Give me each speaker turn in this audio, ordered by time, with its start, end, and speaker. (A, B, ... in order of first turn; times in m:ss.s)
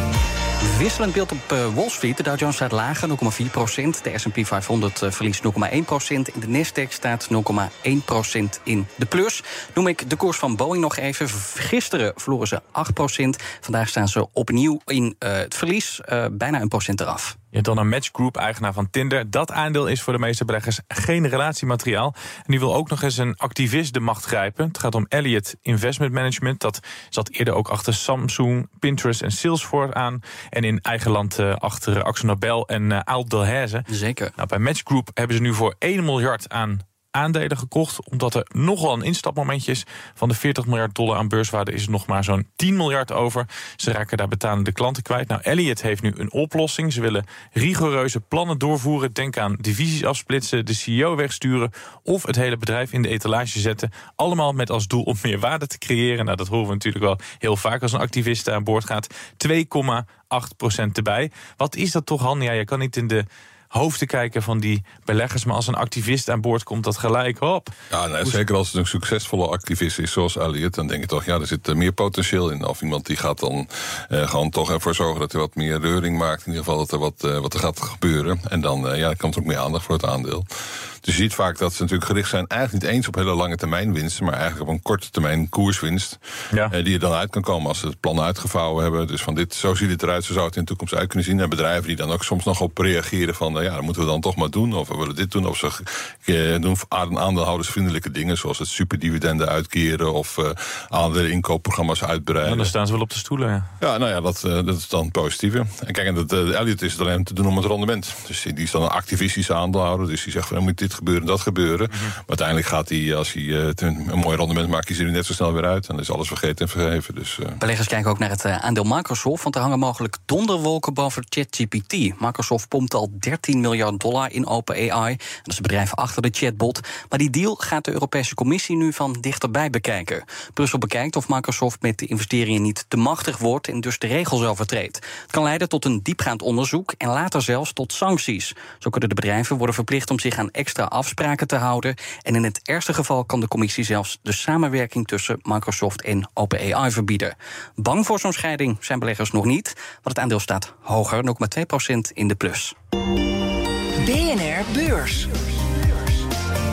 0:00.6-0:17.4 A
0:17.5-1:07.7 B
0:33.9-0:34.3 A
1:07.9-1:20.4 C
1:21.0-1:42.7 C
1:42.4-1:43.7 B
1:43.8-1:57.6 C
1:57.6-2:32.7 A
2:34.0-2:36.2 D